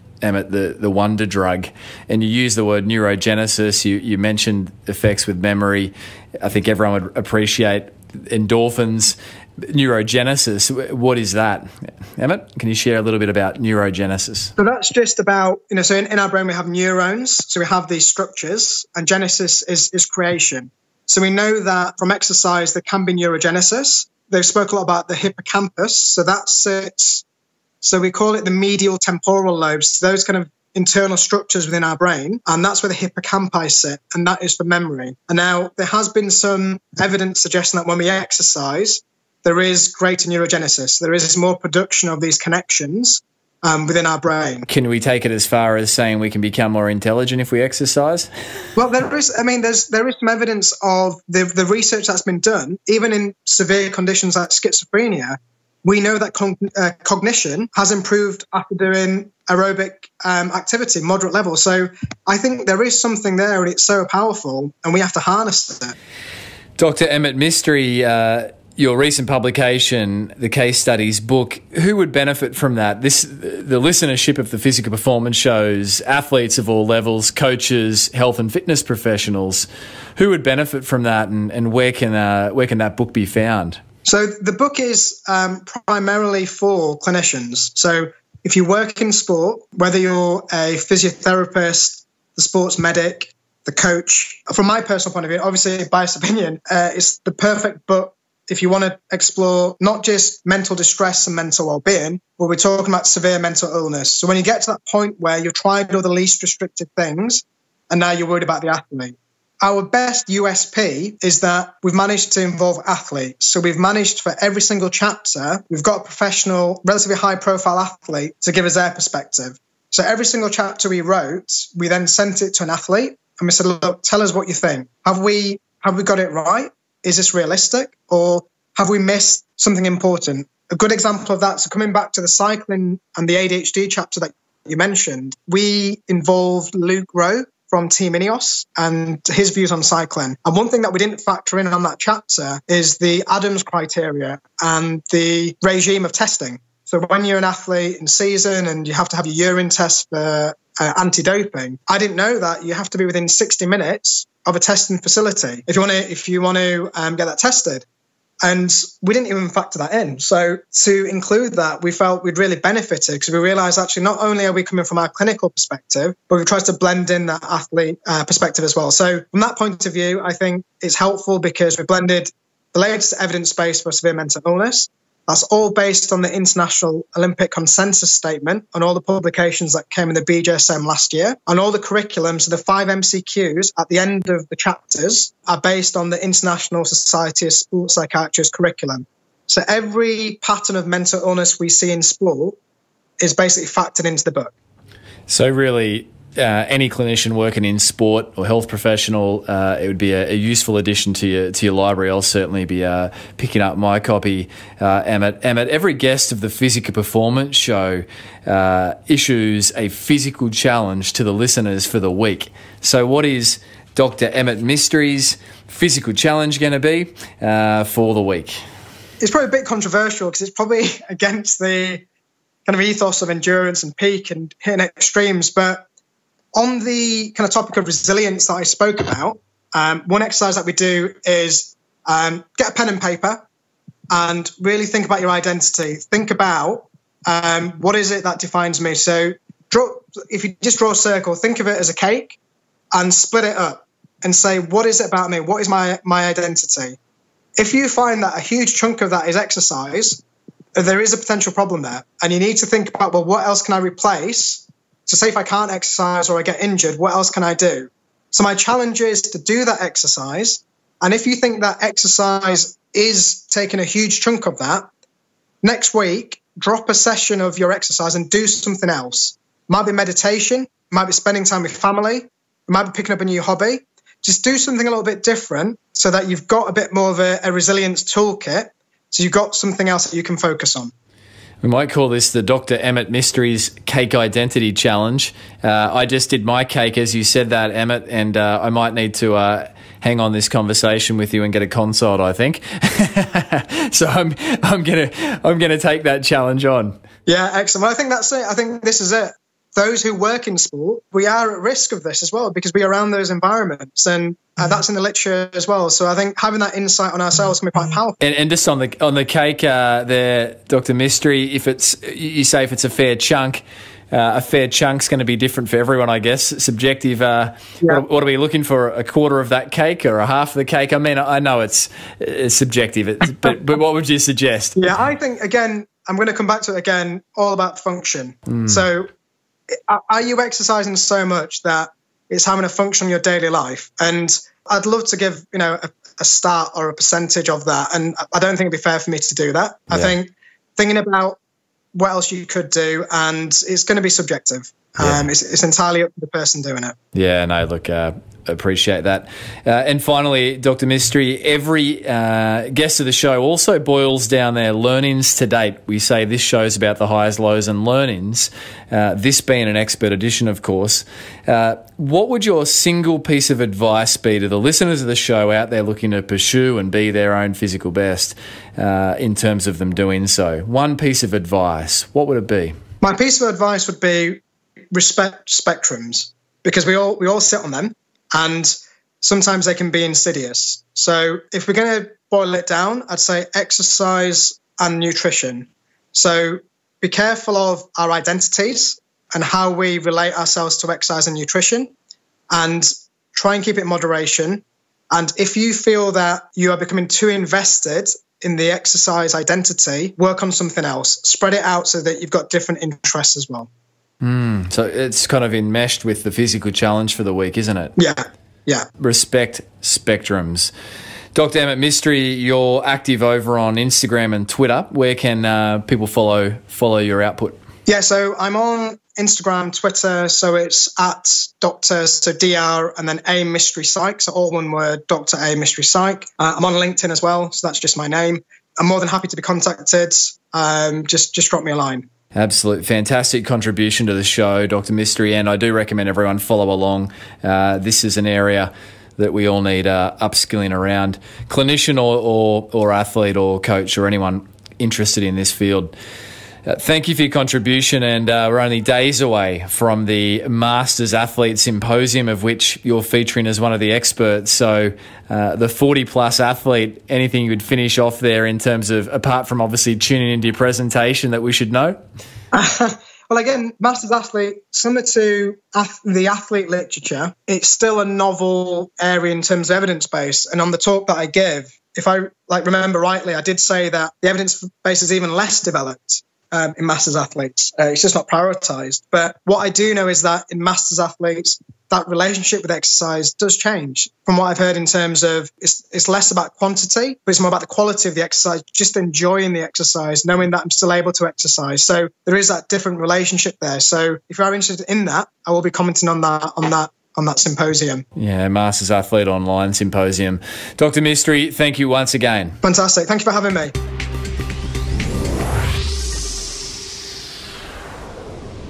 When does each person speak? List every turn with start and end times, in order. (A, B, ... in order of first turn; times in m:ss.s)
0:00.2-0:14.5 A
0:14.6-0:27.2 B
0:27.8-0:44.6 B
0:44.7-0:48.3 A
0:48.8-1:05.9 B
1:06.8-1:23.8 A
1:24.0-2:37.8 B
2:38.4-3:12.6 B
3:13.2-3:14.5 B
3:15.3-3:38.6 A
3:39.2-3:42.0 B
3:42.6-3:45.8 B
3:46.5-3:53.4 B
3:54.1-4:02.4 B
4:02.9-4:07.0 B
4:07.6-4:10.2 B
4:10.7-4:24.9 B
4:25.6-4:40.9 B
4:41.6-4:57.0 A
4:57.2-5:08.2 B
5:08.2-5:24.8 A
5:24.8-5:29.1 B
5:29.7-5:41.4 B
5:41.9-5:47.0 B
5:45.0-5:45.3 A
5:47.1-6:12.7 A
6:13.0-6:14.4 B
6:14.9-6:31.9 B
6:32.5-6:43.7 B
6:44.2-6:47.9 A
6:48.0-6:48.9 B
6:49.0-6:50.7 A
6:51.3-6:57.6 A
6:57.8-7:12.0 B
7:12.3-7:25.9 A
7:26.6-7:42.0 A
7:42.5-8:18.0 B
8:18.2-8:22.6 A
8:22.6-8:23.7 B